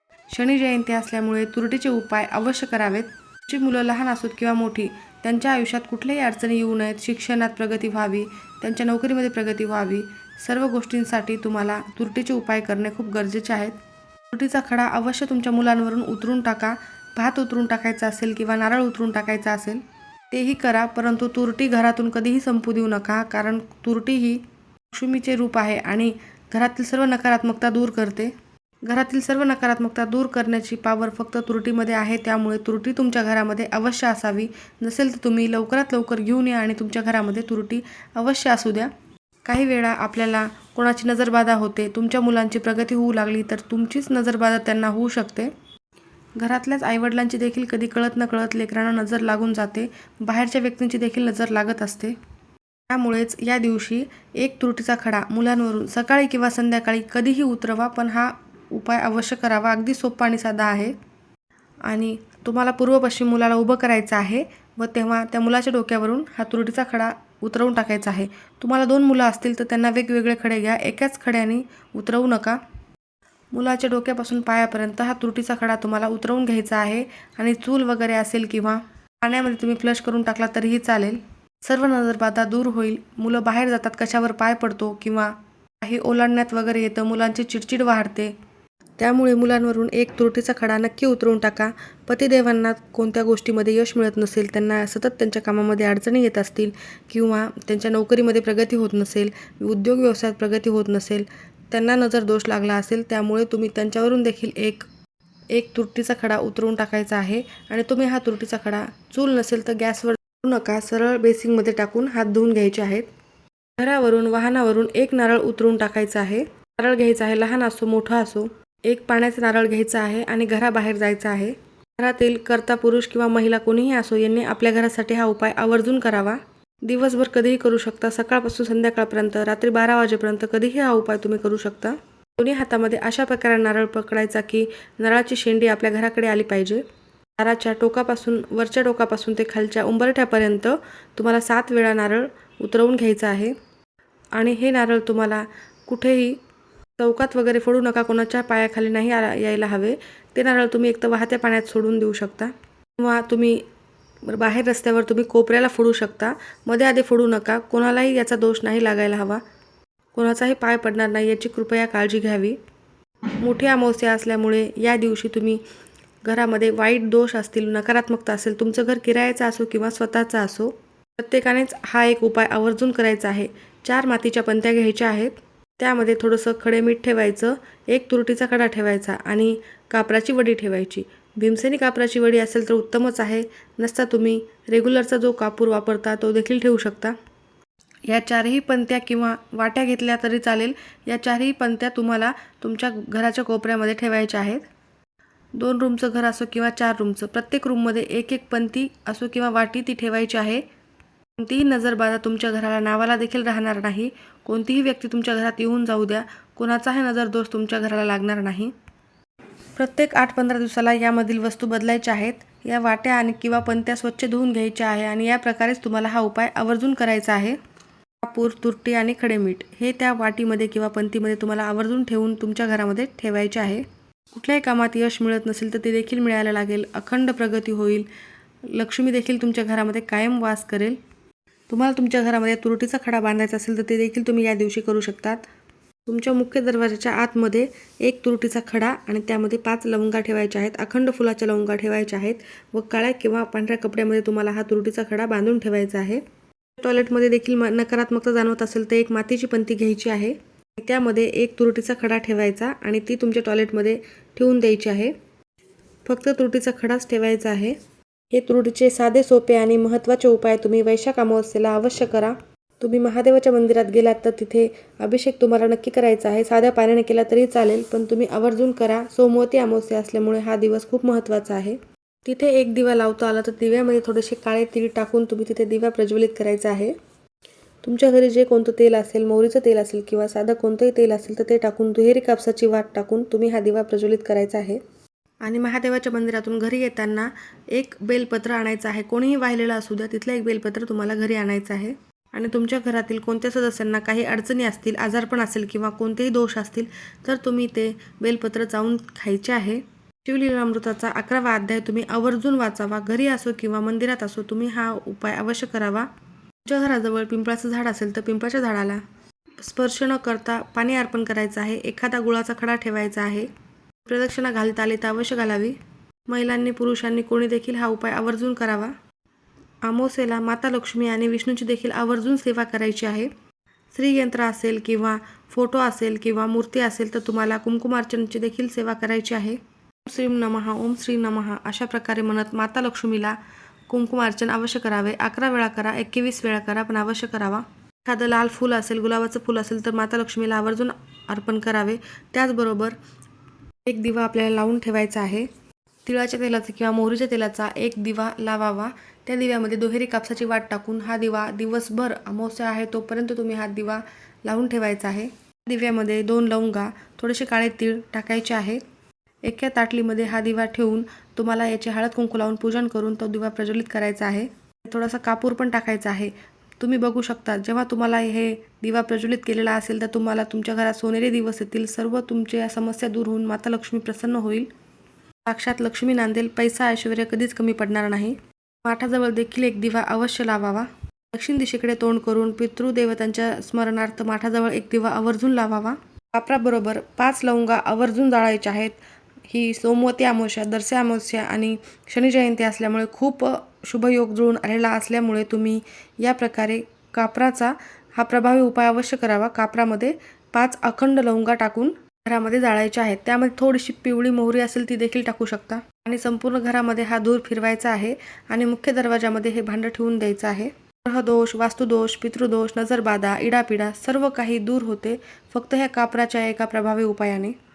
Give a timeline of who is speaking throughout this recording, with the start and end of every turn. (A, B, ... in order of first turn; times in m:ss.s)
0:00.3-0:13.8 A
0:14.3-0:24.4 A
0:24.9-0:28.3 A
0:28.8-0:38.9 A
0:39.4-0:45.5 A
0:46.4-0:52.1 A
0:52.9-1:00.9 A
1:01.8-1:12.6 A
1:13.5-1:28.3 A
1:29.0-1:44.9 A
1:45.5-1:53.1 A
1:53.8-2:16.8 A
2:17.4-2:23.5 A
2:24.4-2:26.4 A
2:27.0-2:33.6 A
2:34.2-2:39.4 A
2:40.1-2:42.6 A
2:43.4-2:45.6 A
2:46.2-3:07.1 A
3:08.1-3:14.6 A
3:15.6-3:20.6 A
3:21.4-3:28.7 A
3:29.8-3:37.6 A
3:38.2-3:48.1 A
3:48.7-3:51.0 A
3:51.7-3:55.5 A
3:56.0-4:06.2 A
4:06.8-4:15.1 A
4:16.0-4:17.8 A
4:18.3-4:36.9 A
4:37.8-4:44.8 A
4:45.4-5:06.1 A
5:06.6-5:09.0 A
5:09.6-5:13.5 A
5:14.0-5:15.8 A
5:16.3-5:18.9 A
5:19.8-5:23.3 A
5:23.9-5:33.4 A
5:33.9-5:43.0 A
5:43.8-5:45.5 A
5:46.0-5:58.8 A
5:59.4-6:14.7 A
6:15.4-6:29.0 A
6:29.5-6:57.5 A